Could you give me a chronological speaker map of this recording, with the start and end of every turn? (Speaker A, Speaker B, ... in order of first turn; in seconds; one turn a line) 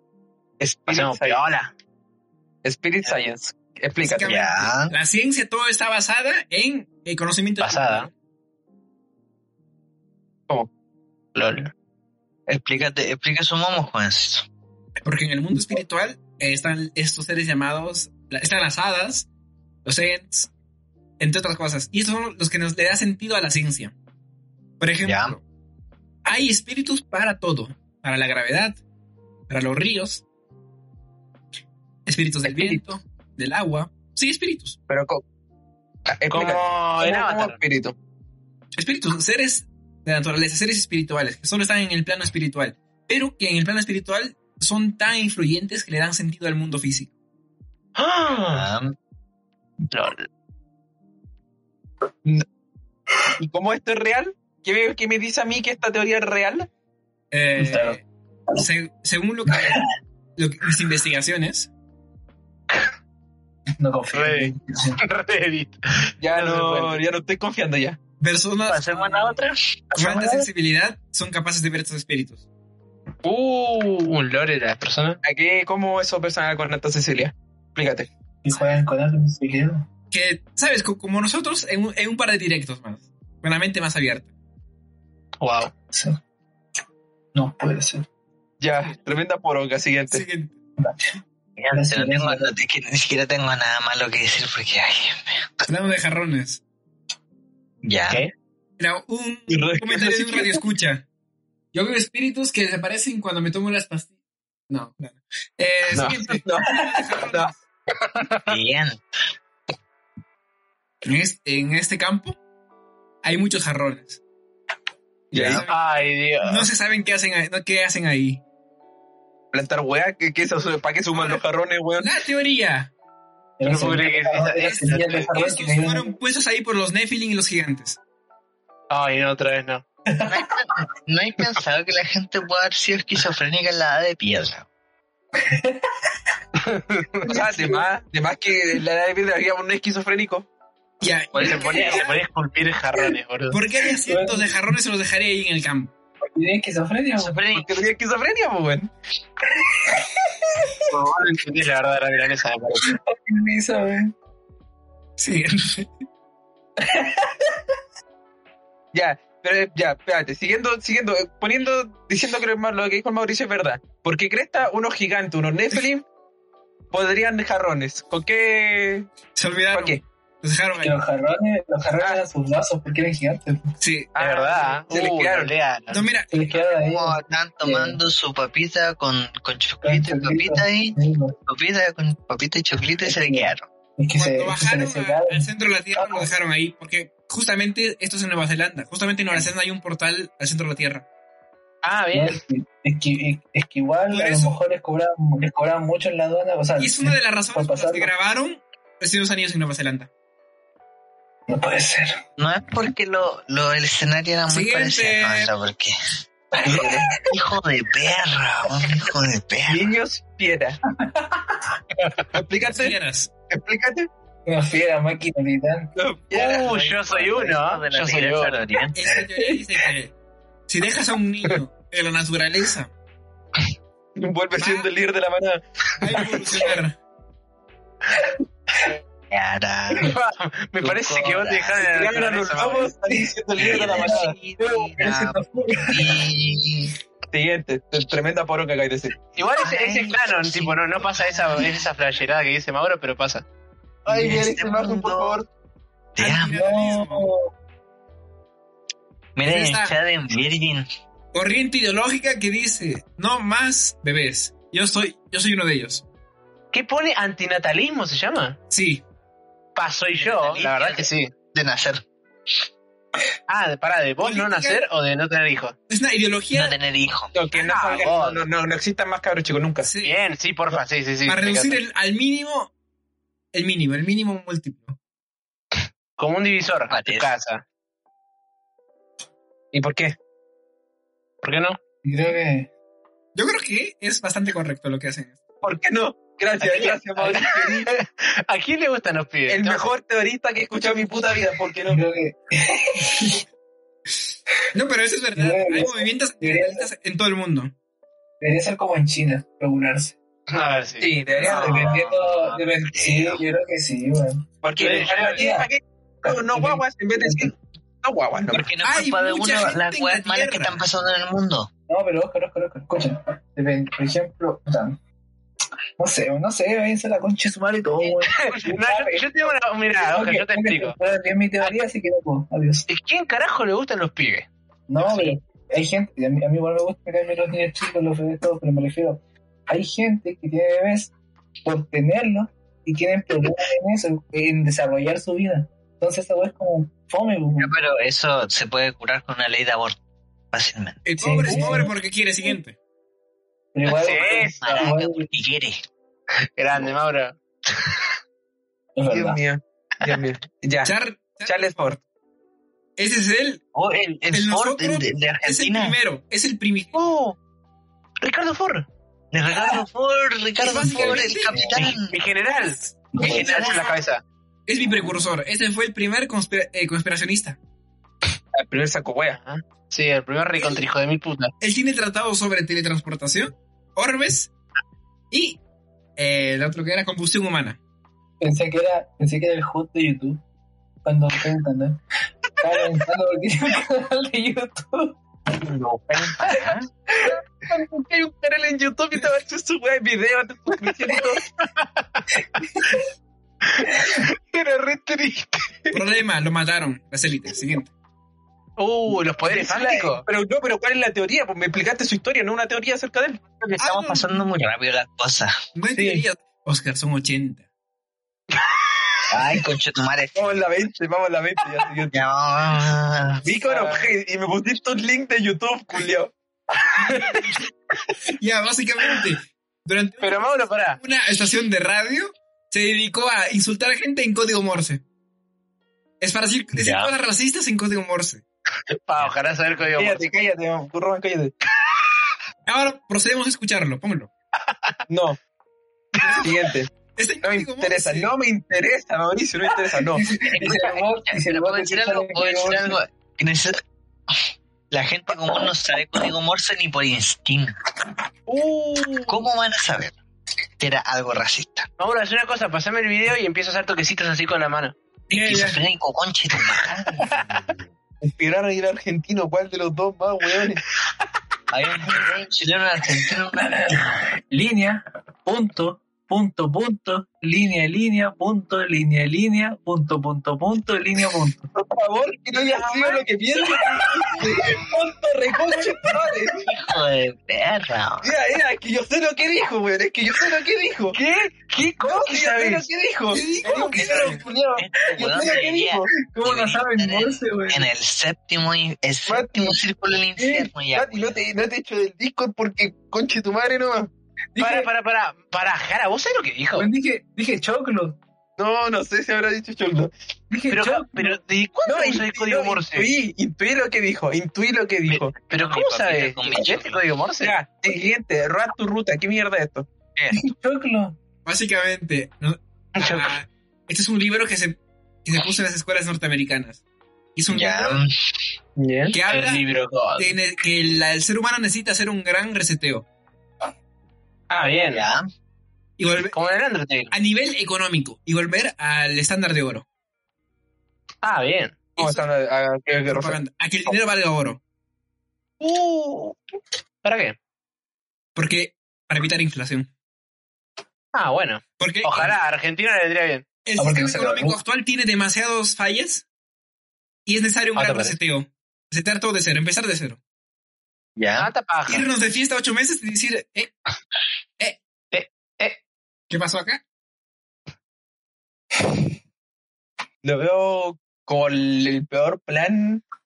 Speaker A: 0.6-1.4
Speaker B: 0.9-1.7
Speaker A: 2.6-4.5
Speaker C: 4.0-4.9
Speaker D: 4.1-8.1
Speaker B: 7.6-8.1
Speaker B: 11.3-11.7
Speaker C: 12.5-14.5
Speaker D: 15.1-19.3
Speaker D: 19.9-20.5
Speaker D: 21.2-23.9
Speaker D: 24.8-25.4
Speaker C: 25.0-25.4
Speaker D: 26.2-28.8
Speaker D: 29.5-30.2
Speaker D: 32.1-34.8
Speaker A: 32.4-32.8
Speaker A: 34.9-35.2
Speaker A: 36.1-38.0
Speaker B: 36.3-37.6
Speaker D: 38.8-47.1
Speaker B: 48.0-48.7
Speaker C: 48.5-48.9
Speaker B: 49.9-50.3
Speaker A: 53.4-56.7
Speaker D: 57.3-58.0
Speaker E: 57.6-58.0
Speaker D: 58.6-59.8
Speaker E: 59.5-59.9
Speaker D: 60.4-61.7
Speaker E: 63.8-65.0
Speaker B: 64.1-67.0
Speaker A: 66.2-68.0
Speaker D: 68.2-69.4
Speaker C: 68.7-69.8
Speaker E: 69.9-70.5
Speaker D: 70.0-72.4
Speaker B: 73.2-75.2
Speaker A: 75.2-78.1
Speaker E: 78.4-79.9
Speaker D: 80.1-84.3
Speaker B: 85.4-85.7
Speaker E: 87.3-88.1
Speaker A: 88.6-90.2
Speaker D: 90.1-90.6
Speaker E: 90.8-91.2
Speaker C: 91.6-95.7
Speaker E: 91.7-92.5
Speaker D: 95.7-96.6
Speaker C: 97.8-98.2
Speaker D: 98.8-101.0
Speaker A: 99.5-100.6
Speaker D: 101.7-104.1
Speaker D: 104.7-107.6
Speaker B: 105.9-106.2
Speaker A: 106.0-107.5
Speaker C: 108.5-109.0
Speaker D: 111.0-112.4
Speaker D: 113.2-114.2
Speaker D: 115.3-115.9
Speaker A: 115.3-115.6
Speaker C: 115.4-115.7
Speaker B: 115.7-116.7
Speaker D: 116.4-118.4
Speaker A: 119.5-122.1
Speaker D: 121.1-121.4
Speaker D: 122.0-122.9
Speaker E: 123.6-126.1
Speaker B: 123.6-125.3
Speaker D: 124.6-128.0
Speaker B: 128.9-129.8
Speaker E: 130.1-130.4
Speaker C: 130.2-134.7
Speaker E: 135.4-135.8
Speaker B: 136.6-137.4
Speaker E: 137.3-137.9
Speaker A: 137.3-140.5
Speaker D: 141.0-142.2
Speaker B: 141.3-143.6
Speaker D: 143.5-145.9
Speaker E: 143.9-144.7
Speaker E: 146.3-147.4
Speaker C: 147.2-147.7
Speaker A: 147.5-148.9
Speaker E: 149.5-150.7
Speaker B: 150.9-152.9
Speaker E: 152.9-154.1
Speaker D: 155.2-155.9
Speaker E: 156.8-157.6
Speaker A: 158.9-166.1
Speaker A: 166.9-169.1
Speaker D: 169.3-171.0
Speaker A: 169.7-170.0
Speaker E: 170.8-173.7
Speaker D: 173.8-174.1
Speaker A: 174.2-175.5
Speaker B: 174.2-176.1
Speaker D: 175.9-176.6
Speaker E: 176.3-178.0
Speaker C: 176.6-183.7
Speaker E: 179.8-181.3
Speaker E: 183.0-186.3
Speaker D: 184.2-191.1
Speaker B: 191.8-192.4
Speaker E: 192.1-198.1
Speaker D: 194.1-194.6
Speaker D: 196.8-200.1
Speaker E: 201.5-202.2
Speaker C: 202.4-205.9
Speaker D: 204.5-205.5
Speaker E: 206.5-207.2
Speaker A: 206.7-207.1
Speaker C: 207.3-209.9
Speaker A: 209.7-210.8
Speaker E: 210.9-211.8
Speaker A: 212.3-212.9
Speaker D: 212.6-213.3
Speaker A: 213.5-214.1
Speaker E: 214.5-215.9
Speaker A: 216.0-217.0
Speaker B: 216.3-218.6
Speaker C: 216.4-219.0
Speaker D: 218.9-220.1
Speaker D: 220.7-222.9
Speaker A: 224.2-225.6
Speaker D: 224.6-224.9
Speaker D: 226.0-227.0
Speaker C: 229.3-230.1
Speaker B: 229.9-232.9
Speaker C: 230.8-231.8
Speaker A: 231.8-234.4
Speaker E: 233.1-236.2
Speaker C: 233.6-236.9
Speaker A: 237.3-239.2
Speaker B: 239.4-243.5
Speaker C: 239.6-241.9
Speaker A: 244.1-245.5
Speaker C: 244.1-245.4
Speaker C: 246.2-246.5
Speaker D: 246.2-247.3
Speaker E: 246.5-247.5
Speaker C: 249.4-250.9
Speaker D: 249.5-250.0
Speaker D: 251.3-256.0
Speaker B: 256.7-258.6
Speaker D: 258.7-259.0
Speaker B: 259.8-261.3
Speaker C: 260.2-262.0
Speaker B: 263.5-265.8
Speaker D: 264.2-264.8
Speaker D: 265.9-266.8
Speaker C: 266.5-267.3
Speaker A: 267.3-269.9
Speaker B: 267.5-268.4
Speaker D: 269.8-270.2
Speaker B: 270.0-271.8
Speaker D: 271.3-272.7
Speaker D: 273.5-275.0
Speaker B: 276.2-277.6
Speaker C: 276.9-277.3
Speaker A: 279.7-280.2
Speaker B: 281.4-281.8
Speaker E: 282.0-282.7
Speaker D: 283.4-285.4
Speaker A: 285.6-287.9
Speaker B: 286.6-289.9
Speaker A: 289.5-292.0
Speaker E: 291.9-293.4
Speaker D: 294.7-297.7
Speaker E: 295.4-296.9
Speaker E: 298.4-300.2
Speaker B: 300.5-301.7
Speaker A: 301.0-302.1
Speaker E: 301.4-305.7
Speaker C: 301.4-303.4
Speaker A: 304.6-307.5
Speaker B: 304.8-305.5
Speaker E: 306.2-307.5
Speaker A: 308.0-308.7
Speaker C: 308.5-311.7
Speaker D: 308.8-310.8
Speaker E: 311.9-315.0
Speaker E: 316.0-322.9
Speaker B: 318.1-321.0
Speaker B: 322.9-324.5
Speaker E: 324.9-331.1
Speaker B: 325.0-325.4
Speaker E: 331.6-337.7
Speaker C: 337.6-340.0
Speaker C: 340.5-341.0
Speaker D: 341.1-342.8
Speaker E: 341.2-341.9
Speaker E: 343.7-345.3
Speaker C: 343.9-345.8
Speaker B: 343.9-344.9
Speaker B: 346.6-348.1
Speaker E: 348.9-349.4
Speaker A: 349.1-350.9
Speaker D: 350.8-351.9
Speaker A: 351.5-352.0
Speaker D: 353.0-353.6
Speaker C: 353.8-356.0
Speaker D: 354.3-357.0
Speaker B: 356.9-357.4
Speaker B: 358.2-358.9
Speaker C: 359.3-362.1
Speaker D: 360.6-361.6
Speaker E: 360.9-361.9
Speaker B: 362.0-364.2
Speaker E: 363.1-363.7
Speaker C: 363.2-363.9
Speaker D: 364.7-367.6
Speaker A: 368.6-369.4
Speaker B: 369.4-371.5
Speaker D: 371.6-374.5
Speaker D: 375.3-375.6
Speaker D: 376.2-377.8
Speaker E: 378.4-380.4
Speaker E: 381.0-382.0
Speaker E: 382.6-385.2
Speaker A: 385.7-386.4
Speaker C: 386.2-386.8
Speaker A: 388.0-391.4
Speaker B: 388.6-389.1
Speaker B: 391.6-392.3
Speaker E: 392.6-393.0
Speaker B: 393.7-396.0
Speaker D: 395.9-397.9
Speaker B: 398.8-400.2
Speaker A: 399.4-403.4
Speaker C: 403.6-405.6
Speaker D: 403.8-404.5
Speaker D: 405.8-407.7
Speaker B: 408.5-408.9
Speaker C: 409.3-410.7
Speaker A: 410.4-412.2
Speaker C: 412.1-413.4
Speaker A: 413.4-416.3
Speaker B: 413.6-414.1
Speaker B: 416.8-417.5
Speaker D: 417.1-417.6
Speaker D: 418.4-425.0
Speaker B: 420.2-421.0
Speaker D: 426.2-428.4
Speaker C: 426.8-427.1
Speaker B: 429.1-430.3
Speaker A: 430.0-431.5
Speaker D: 432.7-434.3
Speaker B: 434.6-435.0
Speaker A: 435.1-435.4
Speaker B: 436.1-436.5
Speaker D: 436.2-436.5
Speaker A: 436.4-436.9
Speaker D: 437.1-438.3
Speaker A: 437.4-440.2
Speaker E: 440.0-443.0
Speaker C: 440.6-443.8
Speaker C: 444.9-447.7
Speaker B: 448.5-449.5
Speaker C: 449.3-450.2
Speaker C: 450.8-451.9
Speaker B: 452.0-454.9
Speaker D: 455.3-455.8
Speaker C: 455.4-457.8
Speaker A: 458.2-460.8
Speaker C: 461.7-464.0
Speaker E: 463.6-471.7
Speaker A: 471.7-476.6
Speaker B: 472.6-473.2
Speaker C: 476.6-478.3
Speaker A: 478.2-481.2
Speaker B: 481.1-482.9
Speaker A: 482.0-486.1
Speaker D: 483.3-484.4
Speaker C: 483.9-491.4
Speaker E: 485.0-485.4
Speaker E: 486.2-487.9
Speaker A: 489.3-489.8
Speaker A: 490.4-494.1
Speaker E: 494.6-494.9
Speaker B: 494.6-496.9
Speaker E: 496.8-498.2
Speaker A: 498.6-500.1
Speaker E: 500.5-501.4
Speaker B: 500.7-503.1
Speaker A: 501.9-505.4
Speaker B: 505.1-507.5
Speaker C: 505.5-507.0
Speaker A: 507.4-509.9
Speaker E: 510.3-511.2
Speaker D: 511.4-516.8
Speaker B: 513.0-513.4
Speaker D: 517.4-518.0
Speaker C: 517.5-518.1
Speaker A: 518.8-519.2
Speaker D: 519.1-519.7
Speaker B: 519.3-520.4
Speaker D: 520.2-523.1
Speaker B: 524.5-525.1
Speaker C: 524.6-525.3
Speaker D: 526.0-526.4
Speaker B: 526.3-527.1
Speaker D: 527.1-529.9
Speaker B: 531.2-532.1
Speaker A: 532.0-533.4
Speaker D: 533.1-534.6
Speaker B: 535.6-536.4
Speaker B: 537.0-537.4
Speaker D: 538.4-539.9
Speaker B: 541.1-543.5
Speaker D: 541.8-542.3
Speaker D: 543.6-546.2
Speaker E: 543.8-544.6
Speaker D: 547.3-550.2
Speaker B: 547.8-548.2
Speaker C: 551.2-551.5
Speaker B: 551.4-552.1
Speaker D: 551.9-553.8
Speaker B: 555.1-555.8
Speaker D: 556.3-556.8
Speaker A: 560.2-563.0